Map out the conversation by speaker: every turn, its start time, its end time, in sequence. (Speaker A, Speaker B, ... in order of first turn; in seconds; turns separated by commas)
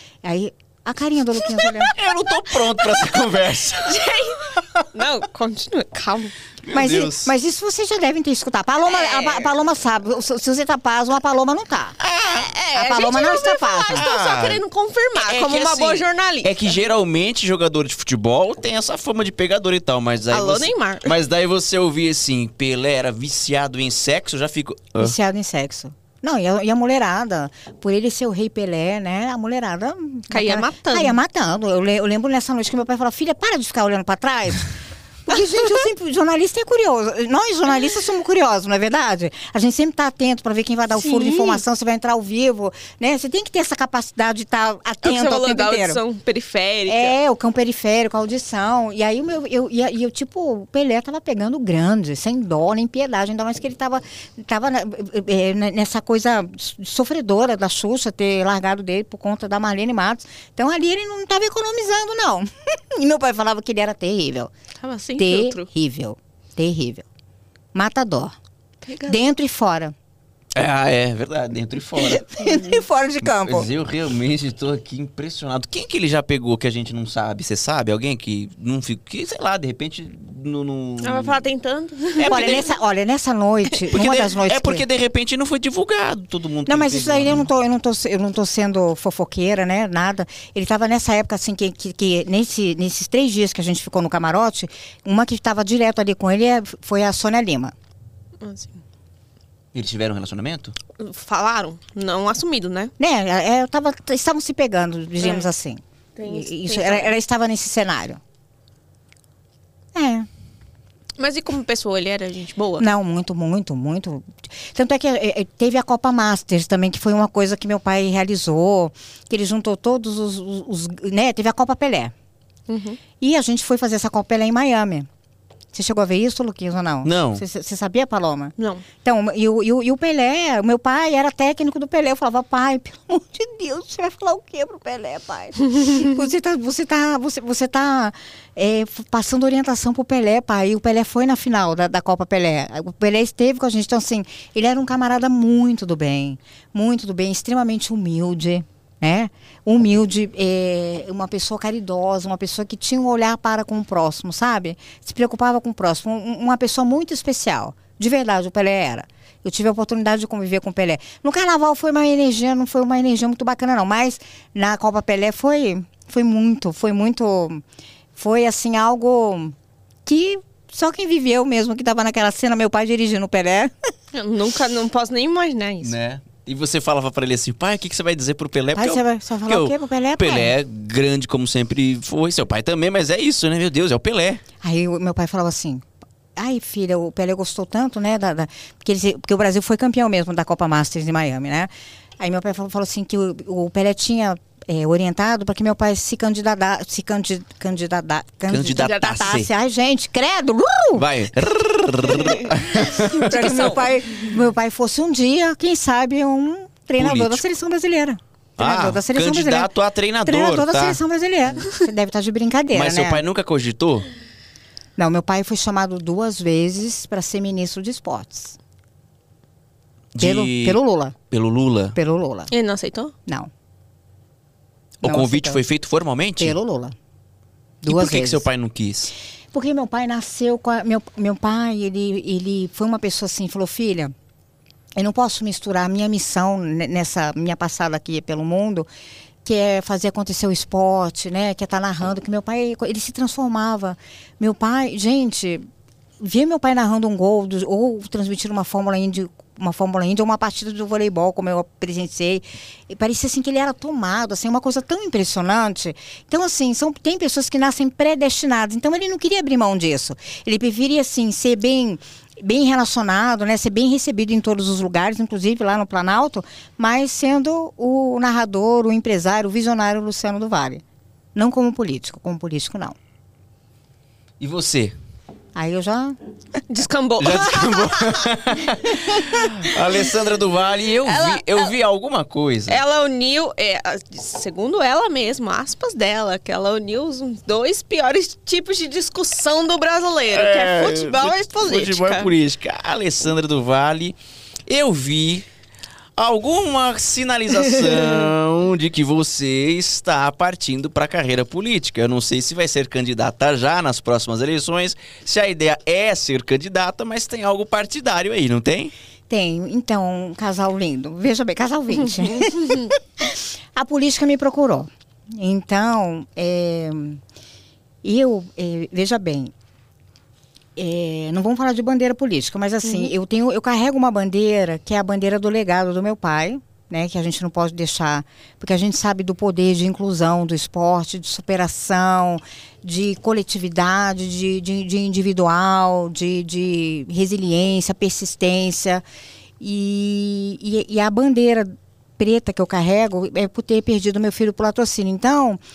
Speaker A: 0.2-1.9, Speaker B: 1.8-4.8, Speaker C: 2.7-6.3, Speaker B: 6.6-7.3, Speaker A: 6.7-12.0, Speaker C: 8.9-9.5, Speaker B: 12.0-12.5, Speaker C: 12.2-16.8, Speaker A: 12.7-14.1, Speaker B: 13.9-14.6, Speaker B: 15.2-25.2, Speaker C: 20.3-21.1, Speaker A: 25.0-34.7, Speaker C: 30.3-31.2, Speaker A: 35.3-46.0, Speaker C: 41.0-41.6, Speaker C: 45.0-47.1, Speaker A: 46.9-64.5, Speaker C: 64.8-65.7, Speaker A: 65.2-67.1, Speaker A: 67.7-68.3, Speaker C: 68.8-69.2, Speaker A: 69.1-70.0, Speaker B: 70.5-72.3, Speaker A: 72.1-73.7, Speaker B: 73.3-81.5, Speaker C: 81.0-82.7, Speaker B: 82.2-82.7, Speaker A: 82.3-84.8, Speaker B: 83.9-87.5, Speaker A: 86.7-97.7, Speaker C: 98.4-98.8, Speaker B: 99.7-100.8, Speaker C: 101.0-102.9, Speaker A: 103.0-108.2, Speaker C: 105.2-105.5, Speaker C: 106.2-107.1, Speaker A: 109.9-110.3, Speaker C: 111.2-112.9, Speaker A: 112.8-122.1, Speaker C: 122.7-123.0, Speaker A: 123.2-125.1, Speaker A: 125.7-167.6, Speaker B: 127.0-127.4, Speaker C: 128.6-128.8, Speaker A: 168.2-169.6, Speaker A: 170.1-173.7, Speaker C: 174.1-175.9, Speaker B: 175.8-184.4, Speaker A: 178.8-180.5, Speaker A: 184.6-201.2, Speaker B: 198.5-199.5, Speaker B: 200.9-203.8, Speaker A: 202.8-209.7, Speaker C: 203.3-203.9, Speaker B: 207.0-207.4, Speaker B: 208.6-211.0, Speaker A: 210.2-213.2, Speaker B: 212.7-214.1, Speaker A: 215.0-218.6, Speaker B: 220.1-222.0, Speaker A: 220.2-221.2, Speaker A: 221.9-222.5, Speaker C: 222.5-223.1, Speaker B: 225.0-226.6, Speaker A: 225.0-225.6, Speaker A: 226.4-226.9, Speaker A: 227.8-228.5, Speaker B: 227.9-229.1, Speaker A: 229.5-234.1, Speaker A: 235.0-238.9, Speaker A: 239.4-245.7, Speaker A: 246.2-270.8, Speaker A: 271.4-273.0, Speaker B: 274.4-274.9, Speaker A: 275.6-276.2, Speaker C: 276.7-280.2, Speaker B: 277.2-282.8, Speaker C: 281.0-281.7, Speaker C: 282.7-292.3, Speaker B: 290.3-295.5, Speaker B: 296.2-308.9, Speaker C: 297.9-298.3, Speaker A: 309.3-317.2, Speaker C: 312.2-312.9, Speaker A: 318.0-319.5, Speaker A: 320.8-339.0, Speaker C: 322.9-323.1, Speaker A: 339.6-345.6